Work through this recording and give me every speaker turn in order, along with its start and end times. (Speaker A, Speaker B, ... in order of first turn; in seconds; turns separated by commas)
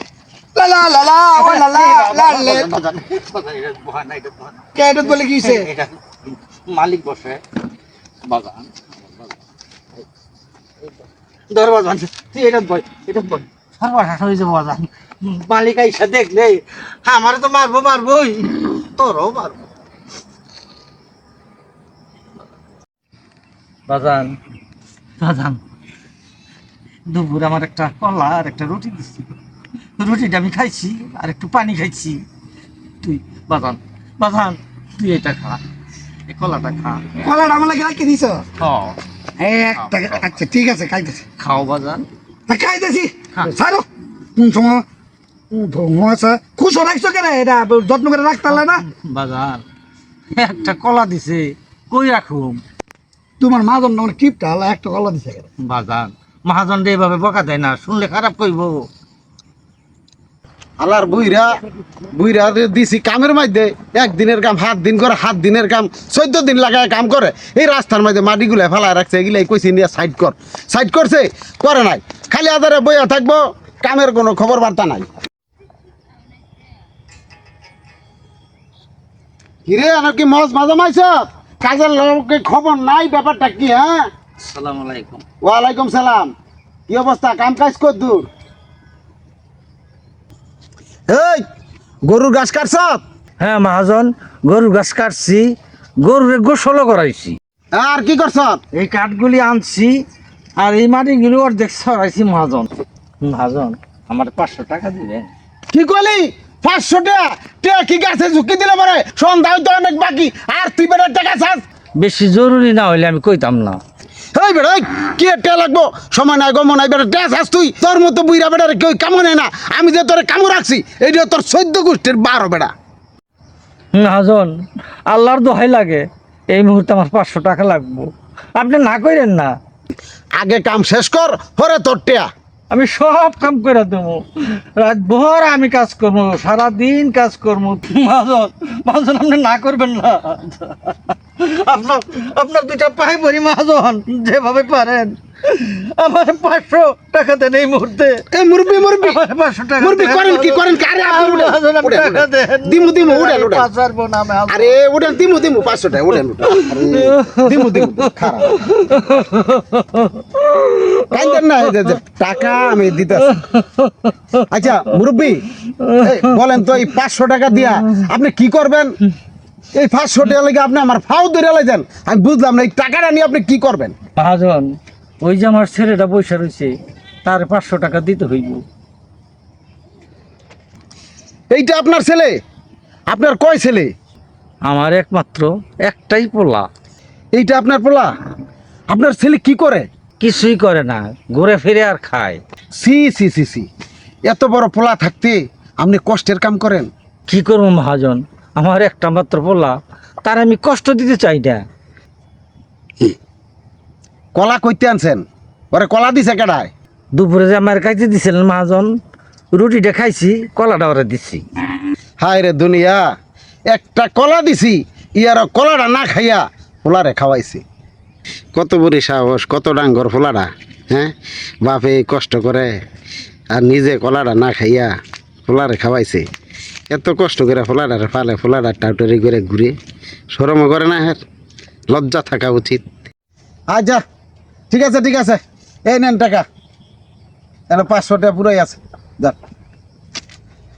Speaker A: 0.6-2.7, Speaker B: 1.4-5.9, Speaker C: 2.0-2.6, Speaker A: 4.8-5.7, Speaker B: 6.7-7.4, Speaker B: 8.2-8.9, Speaker B: 11.5-19.7, Speaker B: 23.9-24.4, Speaker B: 25.2-25.6, Speaker B: 27.1-29.3, Speaker B: 30.0-32.2, Speaker B: 33.0-35.6, Speaker B: 36.3-37.2, Speaker A: 37.2-38.4, Speaker B: 38.6-39.0, Speaker A: 39.4-41.2, Speaker B: 41.4-42.1, Speaker A: 42.5-43.9, Speaker A: 44.4-44.8, Speaker A: 45.5-48.8, Speaker B: 48.5-49.6, Speaker B: 50.3-52.6, Speaker A: 53.4-55.5, Speaker B: 55.6-58.9, Speaker C: 60.8-61.6, Speaker C: 62.1-75.1, Speaker C: 79.7-84.0, Speaker B: 84.4-85.2, Speaker C: 85.4-86.3, Speaker C: 86.9-88.3, Speaker C: 91.1-91.4, Speaker C: 92.0-93.0, Speaker B: 93.4-97.4, Speaker C: 97.8-98.6, Speaker B: 98.7-100.0, Speaker B: 100.6-102.7, Speaker B: 103.2-105.3, Speaker C: 105.7-111.6, Speaker B: 112.0-113.8, Speaker C: 114.3-122.7, Speaker B: 123.9-129.6, Speaker C: 130.4-132.3, Speaker B: 132.7-148.2, Speaker C: 148.3-149.2, Speaker B: 149.0-154.8, Speaker C: 149.8-153.7, Speaker C: 154.5-158.5, Speaker B: 156.5-161.9, Speaker C: 161.1-163.3, Speaker B: 163.2-164.4, Speaker C: 164.5-165.4, Speaker B: 165.7-166.3, Speaker C: 166.0-168.9, Speaker C: 169.7-173.9, Speaker B: 174.2-176.7, Speaker B: 177.2-178.6, Speaker C: 181.5-182.4, Speaker C: 183.1-183.9, Speaker B: 184.7-186.7, Speaker C: 187.4-188.1, Speaker C: 188.9-189.9, Speaker B: 190.2-192.4, Speaker C: 192.8-193.7, Speaker C: 194.3-196.9, Speaker B: 197.3-201.7, Speaker C: 204.3-206.7, Speaker B: 207.2-208.9, Speaker B: 209.5-211.4, Speaker C: 212.2-213.1, Speaker C: 213.7-217.6, Speaker C: 218.5-222.8, Speaker C: 223.5-224.9, Speaker C: 225.5-226.2, Speaker C: 226.9-229.8, Speaker C: 230.3-231.2, Speaker C: 231.9-232.9, Speaker C: 233.7-234.0, Speaker C: 234.7-236.5, Speaker C: 237.7-239.4